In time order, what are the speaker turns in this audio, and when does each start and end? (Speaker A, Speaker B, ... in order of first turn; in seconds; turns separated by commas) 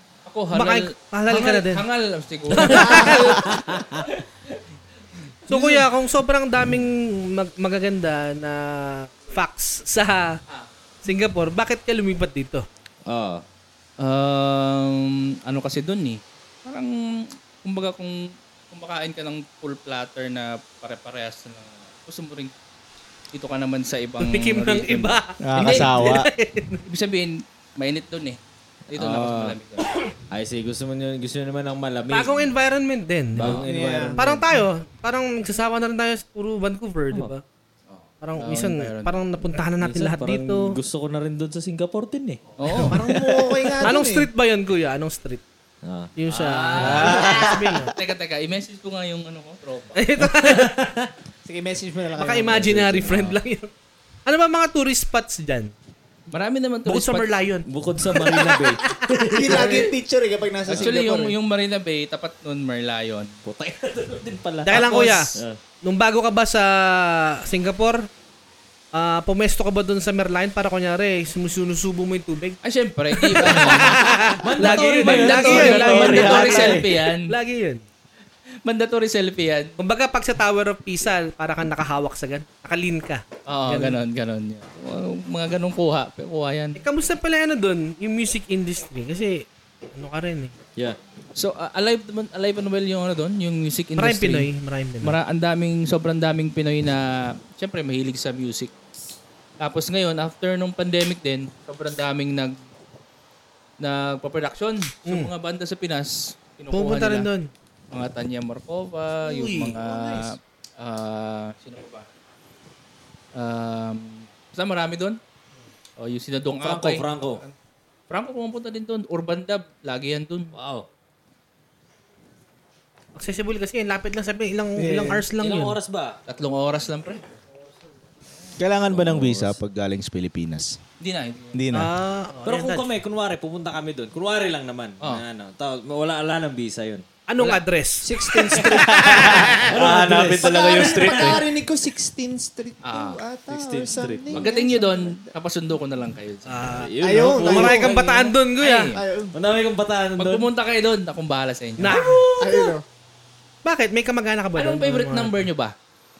Speaker A: 0.2-3.4, Speaker B: 0.5-1.8, Speaker B: 2.5-3.5, Speaker C: 2.8-3.4, Speaker D: 3.4-4.1, Speaker B: 5.5-10.4, Speaker A: 5.5-5.8, Speaker B: 11.0-12.6, Speaker D: 13.1-13.4, Speaker A: 14.0-22.5, Speaker A: 23.3-25.9, Speaker B: 24.2-26.8, Speaker E: 25.4-26.3, Speaker A: 26.8-28.4, Speaker D: 28.9-29.6, Speaker A: 28.9-29.9, Speaker D: 30.3-32.4, Speaker B: 32.1-33.6, Speaker D: 33.3-34.5, Speaker C: 33.5-34.2, Speaker B: 34.1-37.4, Speaker A: 37.9-39.2, Speaker B: 38.2-40.8, Speaker D: 39.8-42.8, Speaker A: 42.6-43.1, Speaker B: 42.7-43.1, Speaker C: 42.9-44.3, Speaker B: 43.8-45.4, Speaker D: 45.8-46.1, Speaker B: 46.2-47.9, Speaker A: 46.3-50.0, Speaker D: 46.8-47.2, Speaker E: 46.8-47.6, Speaker B: 49.9-50.7, Speaker D: 50.2-51.1, Speaker C: 51.4-53.0, Speaker B: 52.2-53.7, Speaker D: 52.5-53.4, Speaker B: 54.2-55.7, Speaker A: 56.3-57.4, Speaker B: 56.9-59.6, Speaker D: 57.7-59.9, Speaker C: 59.3-61.3, Speaker A: 60.7-63.3, Speaker D: 63.4-65.6, Speaker B: 64.6-68.1, Speaker A: 64.7-65.2, Speaker B: 68.9-72.6, Speaker A: 72.6-77.3, Speaker B: 73.1-77.8, Speaker D: 74.4-76.5, Speaker E: 75.8-76.8, Speaker A: 78.6-79.8, Speaker B: 79.8-84.0, Speaker A: 83.5-86.8, Speaker B: 86.8-90.5, Speaker A: 91.3-94.5, Speaker B: 94.0-95.2, Speaker A: 95.0-98.7, Speaker A: 99.6-102.5, Speaker A: 103.8-107.3, Speaker B: 105.0-105.3, Speaker B: 106.7-107.5, Speaker A: 107.9-112.1, Speaker B: 109.2-109.8, Speaker C: 109.8-110.3, Speaker A: 113.3-115.2, Speaker A: 116.0-117.5, Speaker D: 116.6-117.4, Speaker A: 118.1-120.5, Speaker D: 120.5-120.9, Speaker B: 123.2-125.8, Speaker C: 124.8-125.2, Speaker D: 125.4-126.2, Speaker A: 126.3-127.2, Speaker E: 128.6-130.8, Speaker D: 128.9-129.6, Speaker A: 131.0-131.6, Speaker E: 131.5-131.9, Speaker B: 131.7-132.9, Speaker D: 132.4-137.0, Speaker B: 137.3-138.1, Speaker C: 138.0-145.3, Speaker E: 138.6-141.4, Speaker B: 139.1-139.4, Speaker D: 139.7-141.4, Speaker A: 142.8-143.2, Speaker D: 143.5-144.4, Speaker A: 144.3-146.7, Speaker B: 146.5-148.9, Speaker D: 146.7-147.9, Speaker C: 147.0-148.3, Speaker A: 148.6-149.0, Speaker C: 148.9-149.3, Speaker D: 149.3-150.5, Speaker A: 150.2-152.0, Speaker B: 151.8-152.3, Speaker D: 151.9-152.7, Speaker C: 152.3-152.8, Speaker B: 153.6-155.4, Speaker A: 154.5-155.7